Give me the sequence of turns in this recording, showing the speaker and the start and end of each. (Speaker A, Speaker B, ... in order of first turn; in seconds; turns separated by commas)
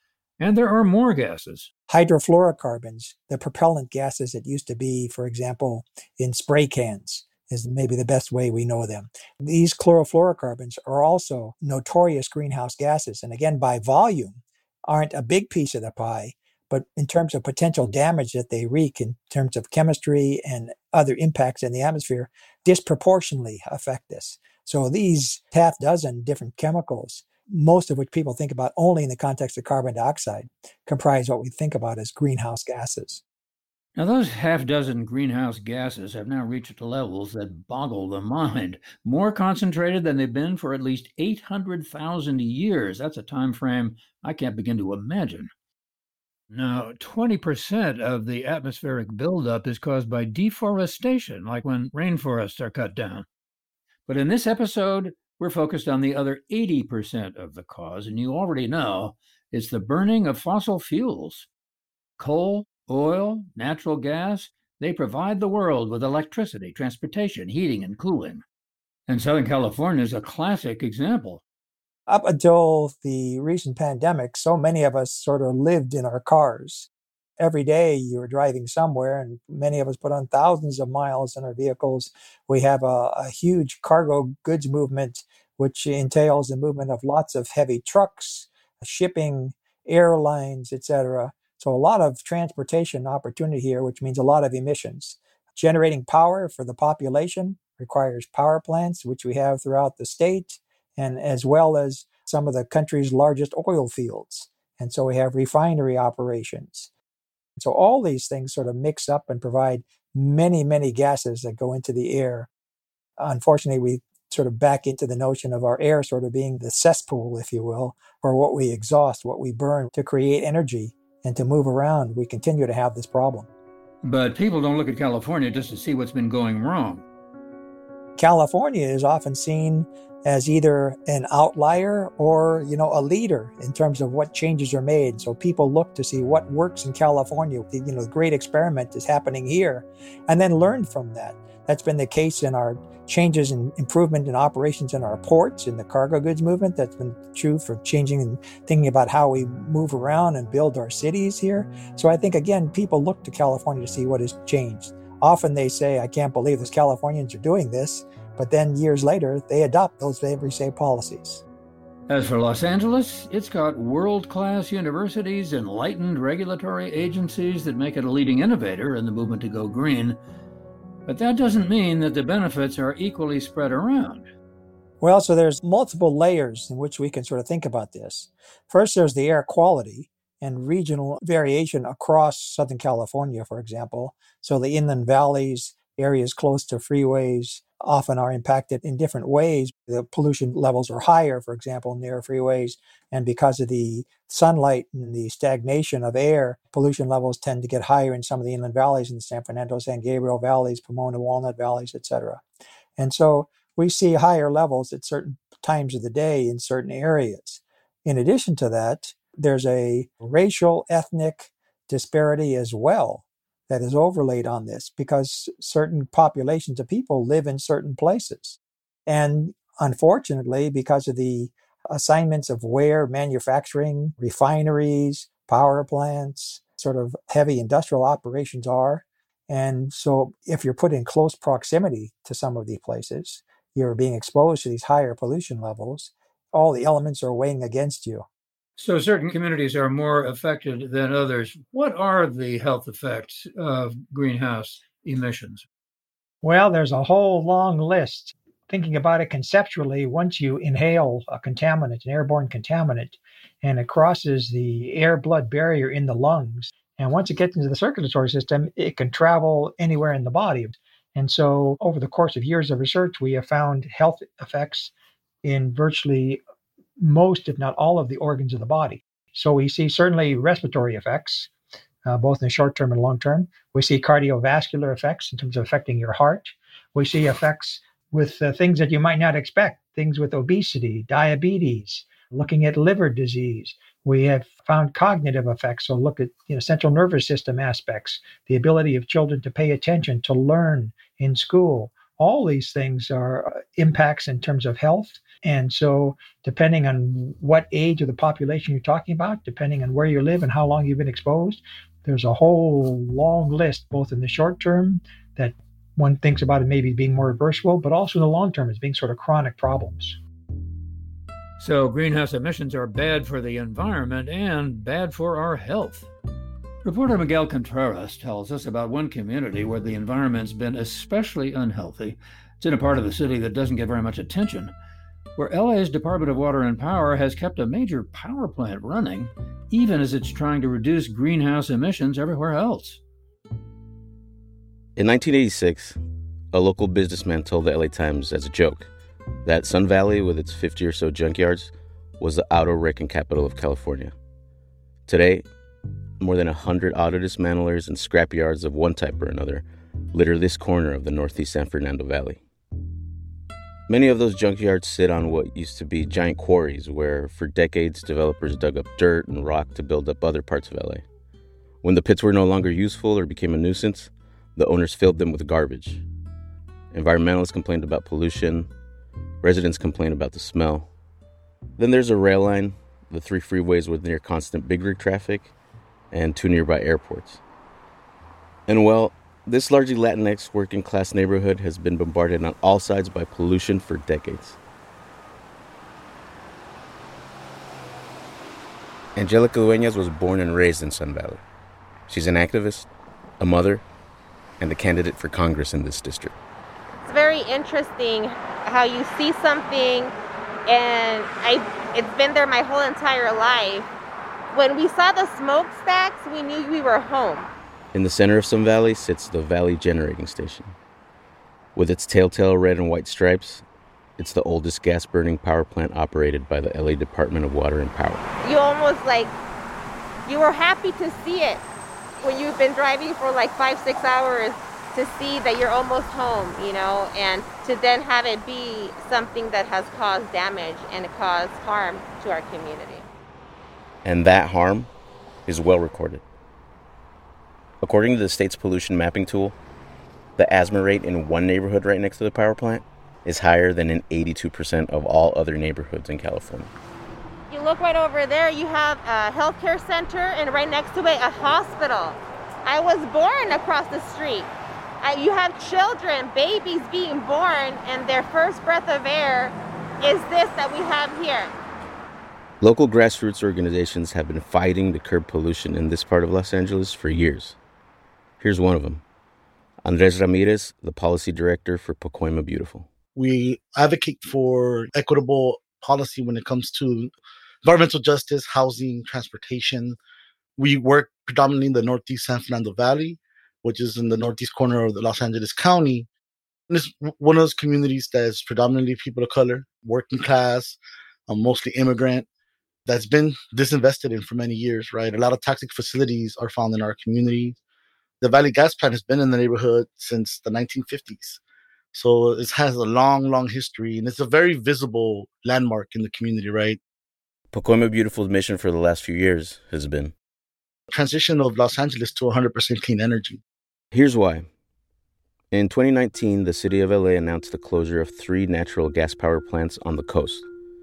Speaker A: 0.4-1.7, Speaker B: 1.9-33.2, Speaker A: 34.0-45.5, Speaker A: 46.5-53.2, Speaker A: 54.1-61.5, Speaker A: 62.2-68.4, Speaker A: 69.1-71.4, Speaker B: 72.1-106.9, Speaker B: 107.6-112.5, Speaker B: 113.2-123.5, Speaker A: 124.0-127.0, Speaker B: 128.2-161.4, Speaker A: 162.1-170.2, Speaker A: 171.1-174.3, Speaker B: 175.0-202.4, Speaker B: 203.0-238.3, Speaker A: 238.8-245.7, Speaker B: 246.4-264.9, Speaker B: 265.4-266.4, Speaker B: 267.0-271.5, Speaker B: 272.0-310.2, Speaker A: 311.6-316.1, Speaker A: 316.8-324.7, Speaker A: 325.4-333.0, Speaker C: 334.9-336.0, Speaker C: 336.5-338.9, Speaker C: 339.4-344.1, Speaker C: 345.1-345.4, Speaker C: 346.2-352.4, Speaker C: 353.9-361.0, Speaker C: 361.8-366.0, Speaker C: 366.9-368.7, Speaker C: 369.4-370.9, Speaker C: 371.8-375.5, Speaker C: 376.1-377.4, Speaker C: 378.7-384.6, Speaker C: 389.1-391.4, Speaker C: 392.1-392.9, Speaker C: 393.4-393.8, Speaker C: 394.6-396.3, Speaker D: 397.0-400.1, Speaker D: 400.7-403.9, Speaker D: 404.5-407.5, Speaker C: 407.9-410.7, Speaker C: 411.7-413.6, Speaker C: 414.2-418.2, Speaker D: 418.4-419.3, Speaker D: 420.2-421.6, Speaker D: 422.2-433.1, Speaker C: 434.0-434.9, Speaker C: 435.4-436.2, Speaker C: 437.8-439.5, Speaker C: 440.4-446.7, Speaker D: 447.5-454.5, Speaker D: 455.0-461.5, Speaker C: 462.6-467.6, Speaker C: 468.4-469.0, Speaker C: 469.8-472.9, Speaker E: 473.1-477.1, Speaker E: 477.6-480.0, Speaker E: 480.6-486.1, Speaker E: 486.7-490.8, Speaker E: 491.3-492.2, Speaker E: 492.9-497.6, Speaker E: 498.2-501.4, Speaker E: 501.9-506.8, Speaker C: 507.5-510.1, Speaker E: 510.9-513.4, Speaker C: 513.9-514.5, Speaker C: 515.5-520.4